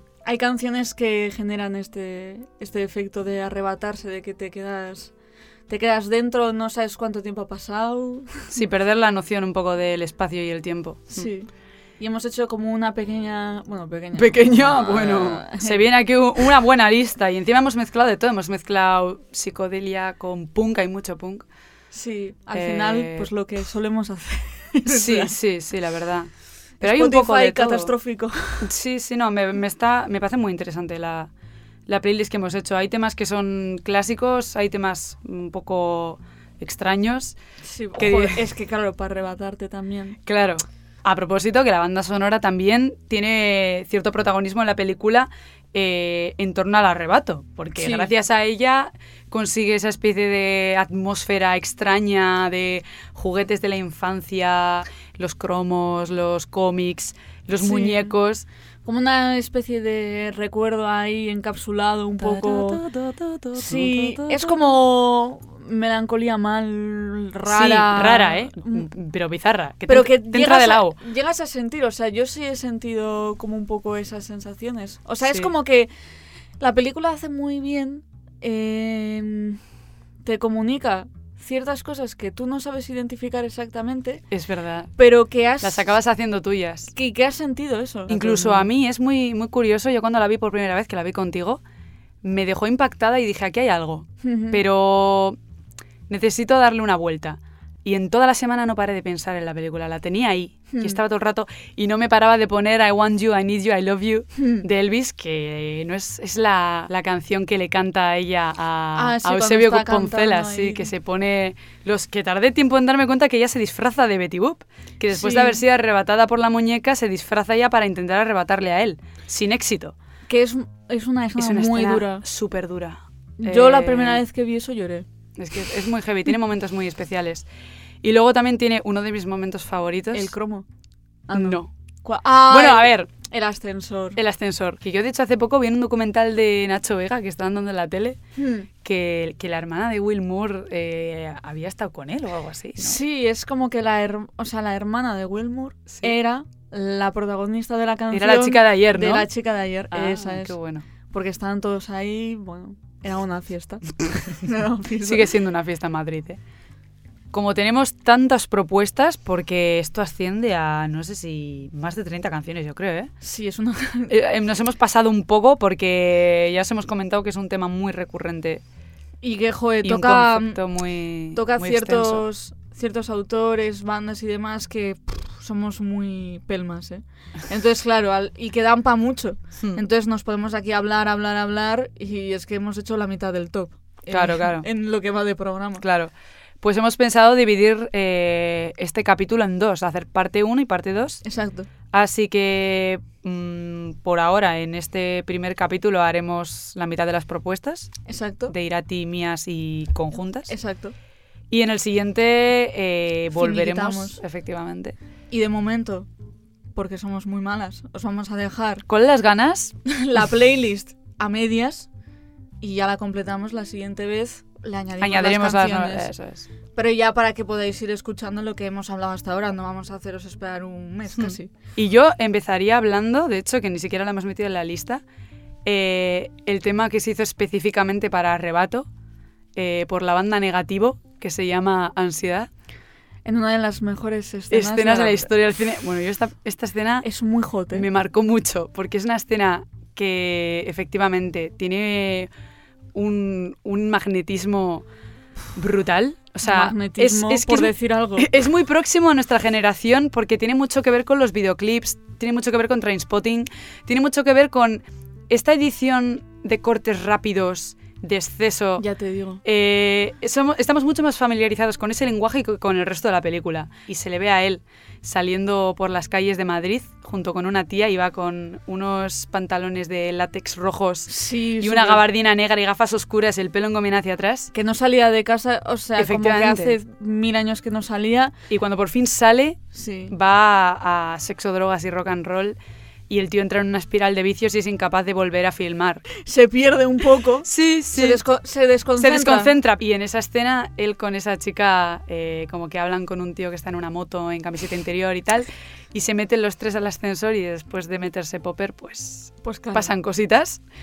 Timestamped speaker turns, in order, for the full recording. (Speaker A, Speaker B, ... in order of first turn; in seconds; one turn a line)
Speaker A: 0.2-5.1
Speaker A: 5.7-8.5
Speaker B: 8.5-11.3
Speaker A: 11.1-11.5
Speaker A: 12.0-15.8
Speaker B: 14.2-21.4
Speaker A: 21.9-25.3
Speaker B: 22.5-23.3
Speaker B: 24.9-26.3
Speaker B: 26.8-27.9
Speaker A: 26.8-28.7
Speaker B: 28.6-31.3
Speaker B: 31.9-37.4
Speaker A: 37.6-40.2
Speaker B: 38.0-38.4
Speaker B: 40.2-58.5
Speaker A: 47.8-48.1
Speaker A: 57.6-58.1
Speaker A: 58.8-62.8
Speaker B: 62.2-64.6
Speaker A: 63.5-68.9
Speaker B: 67.5-71.0
Speaker A: 69.9-75.9
Speaker B: 75.2-75.5
Speaker A: 76.6-79.6
Speaker A: 80.2-84.2
Speaker B: 84.3-84.9
Speaker A: 85.0-85.9
Speaker B: 85.6-86.9
Speaker A: 86.9-88.7
Speaker B: 88.1-91.6
Speaker B: 92.2-95.4
Speaker A: 94.2-94.6
Speaker B: 96.1-119.9
Speaker A: 100.7-101.0
Speaker A: 104.3-104.6
Speaker A: 108.9-110.9
Speaker A: 115.1-115.6
Speaker A: 120.3-122.2
Speaker B: 121.4-124.2
Speaker A: 123.4-125.0
Speaker B: 125.3-127.5
Speaker B: 128.0-130.3
Speaker A: 130.1-130.7
Speaker A: 131.3-134.2
Speaker B: 131.3-131.7
Speaker B: 132.5-133.1
Speaker B: 134.2-138.2
Speaker A: 138.3-138.7
Speaker B: 138.8-143.0
Speaker A: 142.8-150.6
Speaker B: 148.1-149.3
Speaker B: 149.9-150.8
Speaker A: 151.1-155.3
Speaker B: 155.0-156.4
Speaker B: 157.3-163.1
Speaker A: 163.2-164.1
Speaker B: 164.1-168.6
Speaker A: 169.2-170.6
Speaker B: 169.8-172.2
Speaker A: 171.3-185.8
Speaker B: 184.1-184.7
Speaker B: 185.8-191.2
Speaker A: 191.2-191.7
Speaker B: 191.9-197.9
Speaker A: 198.1-198.5
Speaker B: 198.5-200.5
Speaker A: 200.5-200.9
Speaker B: 201.5-205.0
Speaker A: 203.3-204.2
Speaker A: 205.3-206.1
Speaker A: 206.7-208.8
Speaker B: 208.9-209.7
Speaker A: 209.8-211.9
Speaker A: 212.6-216.1
Speaker B: 215.0-216.5
Speaker A: 216.7-221.5
Speaker B: 221.2-225.0
Speaker B: 225.6-228.9
Speaker B: 229.5-232.5
Speaker A: 233.2-235.3
Speaker B: 234.5-237.1
Speaker A: 237.0-237.9
Speaker B: 237.7-242.3
Speaker B: 242.9-244.8
Speaker B: 245.5-258.8
Speaker A: 246.4-248.3
Speaker A: 258.8-259.4
Speaker B: 259.4-274.5
Speaker A: 271.1-272.0
Speaker A: 274.5-278.3
Speaker B: 276.0-276.8
Speaker B: 278.5-282.6
Speaker A: 279.7-280.1
Speaker B: 283.1-286.0
Speaker A: 286.2-289.5
Speaker B: 287.4-288.2
Speaker B: 289.0-300.6
Speaker A: 299.4-299.9